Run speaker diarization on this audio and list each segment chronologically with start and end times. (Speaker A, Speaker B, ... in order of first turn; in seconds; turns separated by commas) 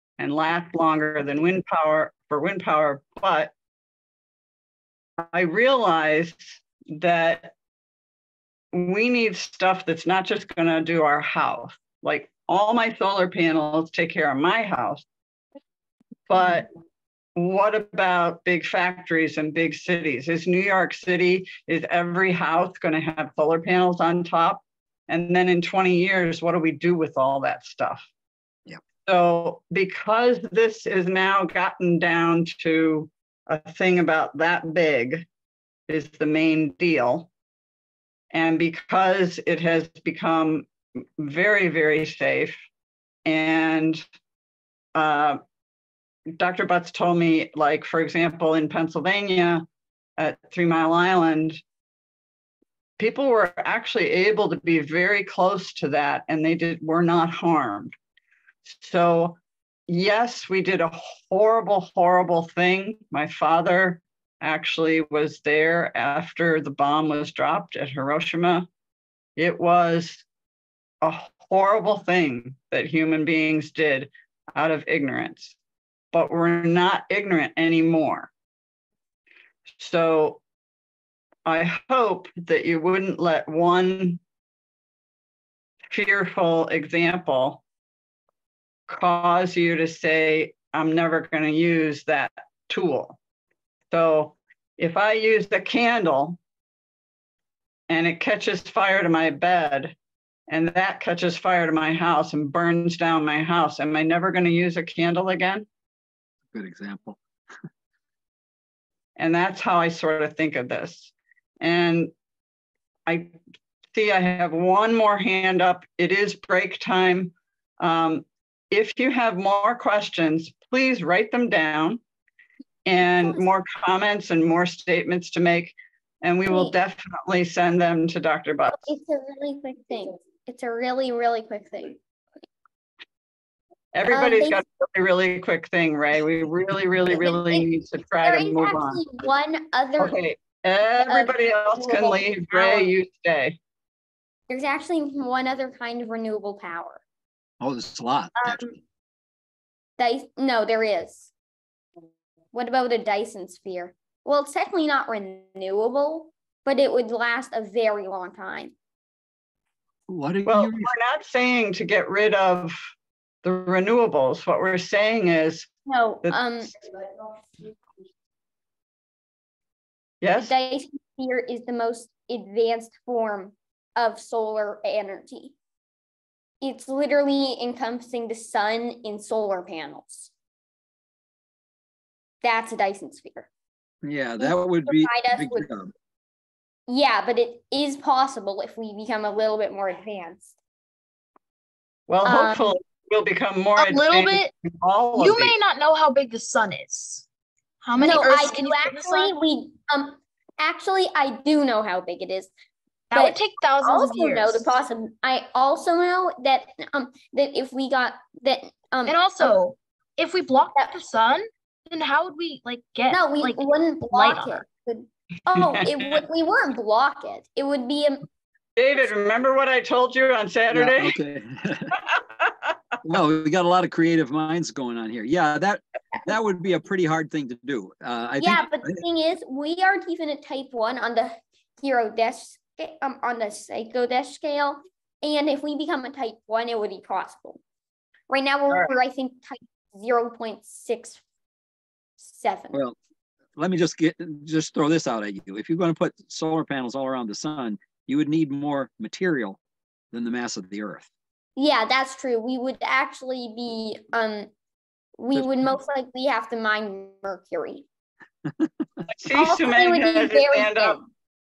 Speaker A: 0.2-3.5, Speaker A: 5.3-7.5, Speaker A: 8.7-15.0, Speaker A: 16.3-16.7, Speaker A: 17.4-28.1, Speaker A: 29.1-35.2, Speaker A: 35.9-37.3, Speaker A: 38.3-42.6, Speaker A: 43.2-44.0, Speaker A: 44.9-45.4, Speaker A: 46.3-49.6, Speaker A: 50.2-51.6, Speaker A: 53.0-57.9, Speaker A: 58.6-68.7, Speaker A: 69.4-70.2, Speaker A: 71.0-75.5, Speaker A: 76.1-78.3, Speaker A: 79.8-80.4, Speaker A: 81.5-84.2, Speaker A: 85.9-87.6, Speaker A: 88.9-93.2, Speaker A: 93.9-96.4, Speaker A: 97.9-99.9, Speaker A: 100.5-105.7, Speaker B: 106.5-107.2, Speaker A: 109.2-112.1, Speaker A: 113.0-113.4, Speaker A: 113.9-122.0, Speaker A: 122.8-128.9, Speaker C: 126.5-126.7, Speaker C: 128.7-132.0, Speaker A: 133.9-139.0, Speaker C: 134.1-134.6, Speaker C: 137.1-137.7, Speaker C: 138.2-140.2, Speaker A: 140.0-143.6, Speaker C: 141.0-142.9, Speaker C: 144.5-147.0, Speaker B: 147.6-148.7, Speaker C: 148.4-148.7, Speaker C: 150.0-151.3, Speaker C: 152.5-158.7, Speaker B: 160.1-160.9, Speaker A: 160.4-162.8, Speaker A: 163.4-165.7, Speaker C: 165.9-166.7, Speaker A: 170.2-170.5, Speaker C: 170.4-175.5, Speaker C: 176.6-180.3, Speaker C: 182.4-183.5, Speaker B: 184.0-185.9, Speaker C: 184.4-185.7, Speaker C: 186.9-190.5, Speaker A: 192.1-195.6, Speaker C: 192.2-192.8, Speaker D: 193.8-194.5, Speaker D: 195.2-197.3, Speaker D: 197.8-199.3, Speaker C: 198.0-202.5, Speaker D: 203.1-204.7, Speaker C: 203.1-209.6, Speaker D: 209.1-214.6, Speaker C: 213.1-218.3, Speaker A: 215.5-216.2, Speaker A: 218.8-221.2, Speaker B: 220.7-221.9, Speaker B: 223.0-229.0, Speaker C: 228.4-237.6, Speaker C: 238.3-241.2, Speaker C: 242.2-242.8, Speaker B: 243.6-249.6, Speaker B: 250.1-251.1, Speaker C: 251.6-254.5, Speaker C: 255.2-257.9, Speaker B: 255.3-255.7, Speaker A: 259.1-261.0, Speaker C: 259.3-261.0